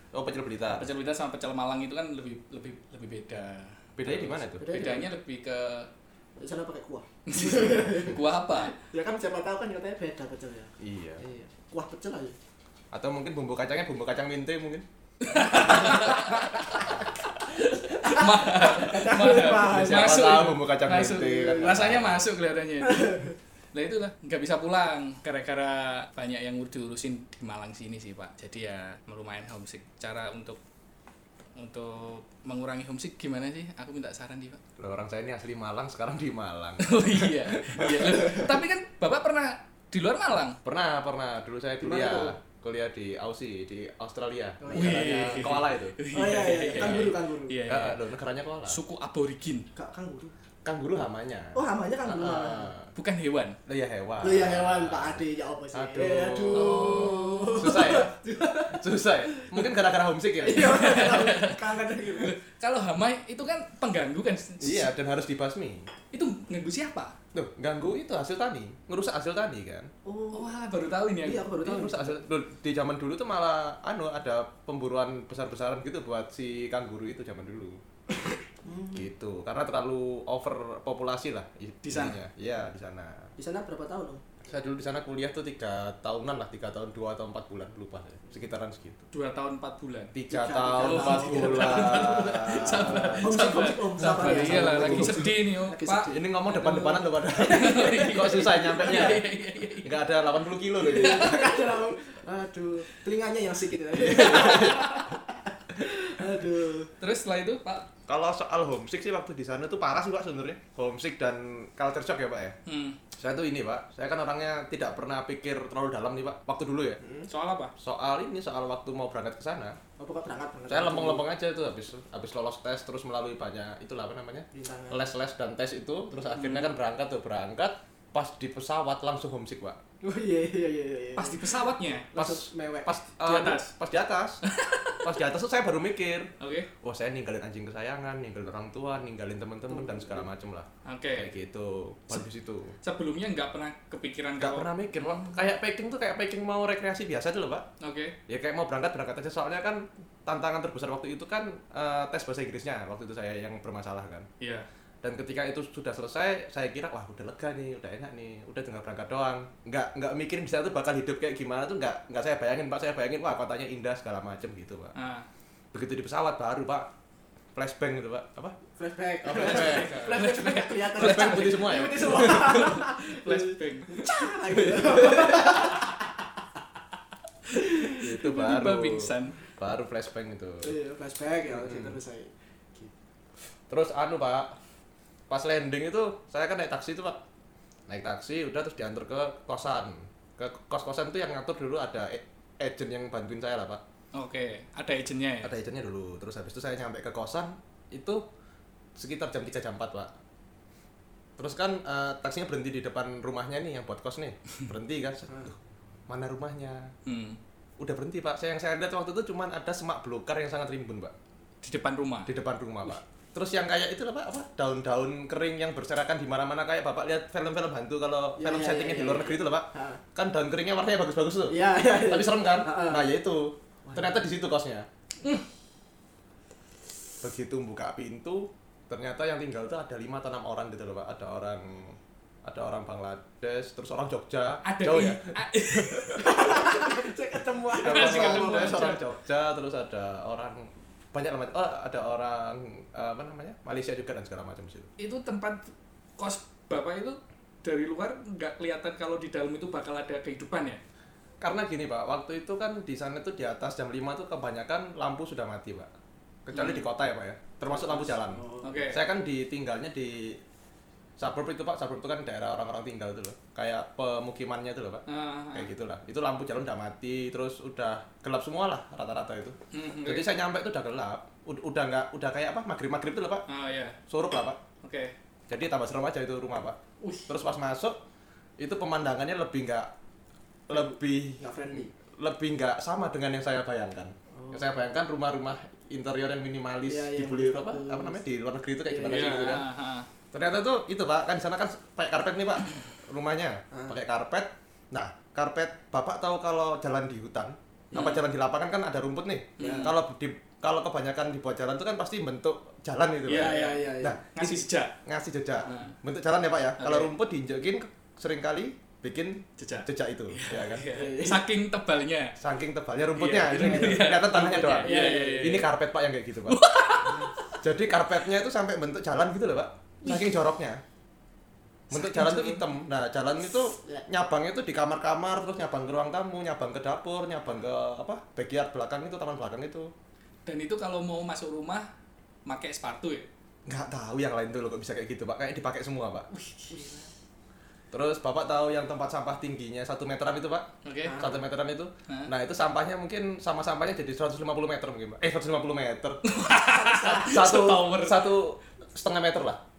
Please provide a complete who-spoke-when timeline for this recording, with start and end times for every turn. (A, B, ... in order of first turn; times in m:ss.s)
0:00.1-0:00.9 A
0:00.7-0:05.9 B
0:04.0-0:04.7 A
0:04.6-0:05.1 C
0:06.4-0:12.4 C
0:07.3-0:08.8 B
0:10.8-0:11.2 A
0:12.9-0:16.4 A
0:15.2-0:16.9 B
0:15.6-0:16.8 C
0:17.4-0:30.6 B
0:17.8-0:20.4 C
0:19.3-0:22.2 A
0:21.3-0:21.8 C
0:22.9-0:23.3 C
0:31.6-0:34.6 B
0:34.8-0:38.4 A
0:36.8-0:40.6 B
0:40.6-0:46.0 A
0:41.8-0:42.4 C
0:44.6-0:45.5 C
0:44.7-0:48.0 B
0:46.1-0:47.6 C
0:46.8-0:47.1 A
0:47.7-0:48.8 A
0:48.6-0:49.7 B
0:49.7-0:50.3 C
0:50.6-0:52.9 A
0:51.5-0:52.7 C
0:52.9-0:53.6 B
0:53.6-0:55.2 A
0:54.2-0:59.6 C
0:55.7-0:58.1 A
0:56.5-0:57.5 B
0:58.6-1:00.9 A
1:00.4-1:02.4 C
1:00.4-1:04.9 B
1:04.6-1:05.9 A
1:06.1-1:07.2 B
1:07.3-1:09.9 A
1:10.0-1:10.6 C
1:10.3-1:11.6 B
1:11.2-1:12.2 C
1:11.6-1:17.8 A
1:18.6-1:19.1 C
1:18.9-1:23.3 A
1:21.8-1:22.2 B
1:23.4-1:24.2 C
1:24.4-1:29.1 A
1:29.1-1:30.1 B
1:30.1-1:35.4 A
1:30.3-1:38.1 C
1:30.7-1:36.1 B
1:36.0-1:41.4 A
1:37.4-1:40.0 B
1:38.8-1:39.1 C
1:40.8-1:46.9 C
1:40.9-1:41.5 B
1:44.0-1:45.0 A
1:47.0-1:47.9 B
1:48.1-1:52.6 A
1:52.6-1:53.0 B
1:53.2-1:57.0 A
1:57.3-1:57.7 B
1:57.8-1:59.8 A
2:00.0-2:01.2 C
2:00.7-2:09.8 A
2:04.5-2:05.1 C
2:06.3-2:06.7 B
2:10.0-2:11.4 C
2:11.2-2:12.1 B
2:12.1-2:13.0 C
2:12.1-2:14.4 A
2:13.1-2:13.7 B
2:14.4-2:15.1 B
2:15.0-2:16.3 A
2:16.4-2:16.7 B
2:16.8-2:22.8 A
2:19.7-2:20.2 C
2:20.8-2:21.3 B
2:22.8-2:25.4 B
2:24.4-2:27.6 A
2:27.8-2:28.2 B
2:28.3-2:34.3 A
2:34.4-2:34.7 B
2:35.0-2:44.9 A
2:44.9-2:45.2 B
2:45.7-2:46.9 A
2:47.5-2:48.6 A
2:48.8-2:55.9 C
2:49.2-2:50.2 A
2:49.4-2:54.0 B
2:50.9-2:52.8 A
2:54.5-2:55.7 A
2:57.7-2:58.0 C
2:57.7-2:59.4 B
2:57.9-3:00.7 A
3:00.6-3:02.9 C
3:01.5-3:01.9 A
3:03.7-3:04.6 A
3:05.3-3:07.2 A
3:07.9-3:13.8 A
3:14.1-3:15.6 B
3:15.4-3:18.2 A
3:19.0-3:20.1 A
3:21.4-3:25.6 A
3:26.1-3:26.9 A
3:27.0-3:27.4 B
3:27.8-3:31.1 A
3:31.6-3:32.3 B
3:32.2-3:44.9 A
3:38.4-3:40.0 C
3:41.5-3:43.1 C
3:43.8-3:44.2 C
3:47.2-3:56.3 A
3:54.6-3:57.0 B
3:56.1-3:59.0 C
3:57.8-3:59.0 B
3:57.8-4:04.9 A
4:05.0-4:10.8 B
4:11.4-4:15.9 A
4:16.4-4:20.4 A
4:16.5-4:16.9 B
4:17.7-4:18.9 C
4:18.6-4:19.0 B
4:21.2-4:33.4 A
4:25.1-4:25.7 B
4:29.7-4:30.3 B
4:33.5-4:34.0 B
4:34.1-4:34.6 A
4:34.8-4:35.1 B
4:35.5-4:36.8 A
4:37.0-4:37.3 B
4:37.3-4:38.0 A
4:38.6-4:39.9 A
4:40.7-4:49.7 A
4:41.4-4:41.9 C
4:44.4-4:44.7 C
4:46.9-4:48.2 C
4:48.9-4:49.5 C
4:49.0-4:50.1 B
4:50.3-5:10.9 A
4:53.7-4:54.0 C
4:57.9-4:58.2 C
4:59.6-5:00.0 B
4:59.6-4:59.9 C
5:03.2-5:05.0 B
5:03.3-5:04.2 C
5:05.6-5:06.0 B
5:06.8-5:07.1 B
5:09.6-5:12.4 B
5:10.9-5:11.4 C
5:12.4-5:16.6 A
5:13.1-5:15.7 B
5:13.5-5:14.1 C
5:14.8-5:15.6 C
5:16.5-5:17.3 B
5:17.6-5:20.8 A
5:21.9-5:29.9 A
5:22.0-5:22.5 B
5:30.4-5:31.9 B
5:32.4-5:33.3 B
5:33.6-5:36.3 A
5:36.3-5:37.1 B
5:36.7-5:37.0 C
5:37.9-5:46.2 A
5:40.8-5:41.3 B
5:41.0-5:41.4 C
5:46.2-5:48.2 B
5:46.7-5:47.4 C
5:47.2-5:49.6 A